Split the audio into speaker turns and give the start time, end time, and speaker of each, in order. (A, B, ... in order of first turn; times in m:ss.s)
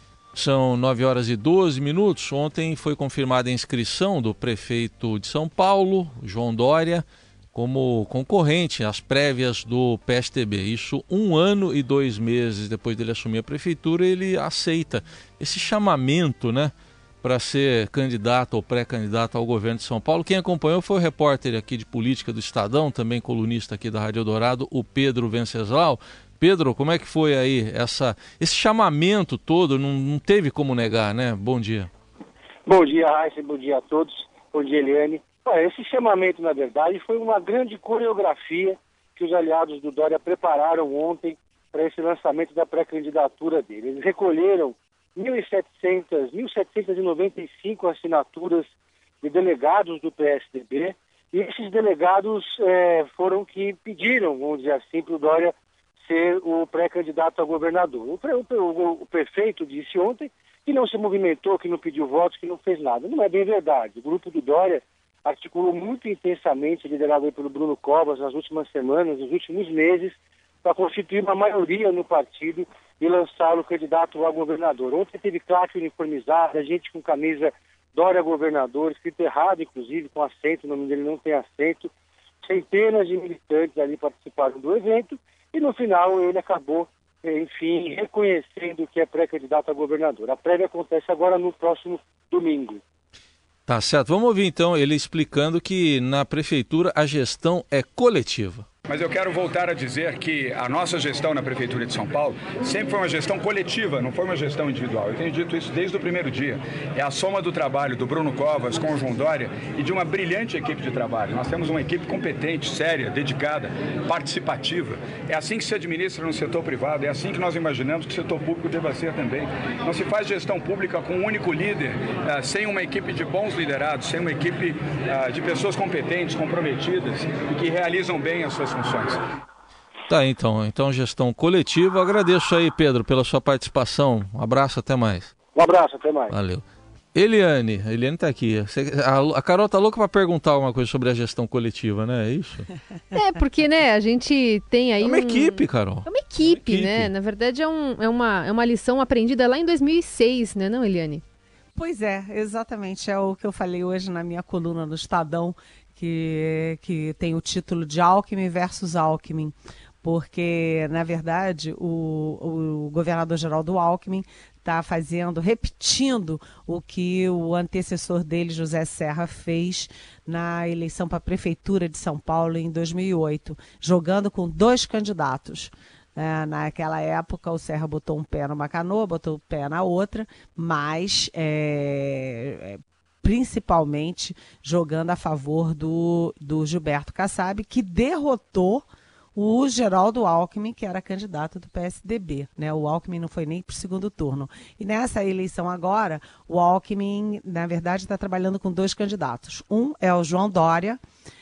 0:00.3-0:31.9 A
0:32.6-0:48.7 B
0:49.2-0:55.5 B
0:56.0-1:21.9 B
1:22.4-1:32.8 B
1:33.7-1:38.6 A
1:38.9-2:09.2 C
2:10.1-2:15.3 A
2:15.5-2:16.3 B
2:16.3-2:16.6 A
2:17.1-2:22.7 A
2:23.1-2:31.2 D
2:25.0-2:27.1 A
2:31.8-3:21.0 E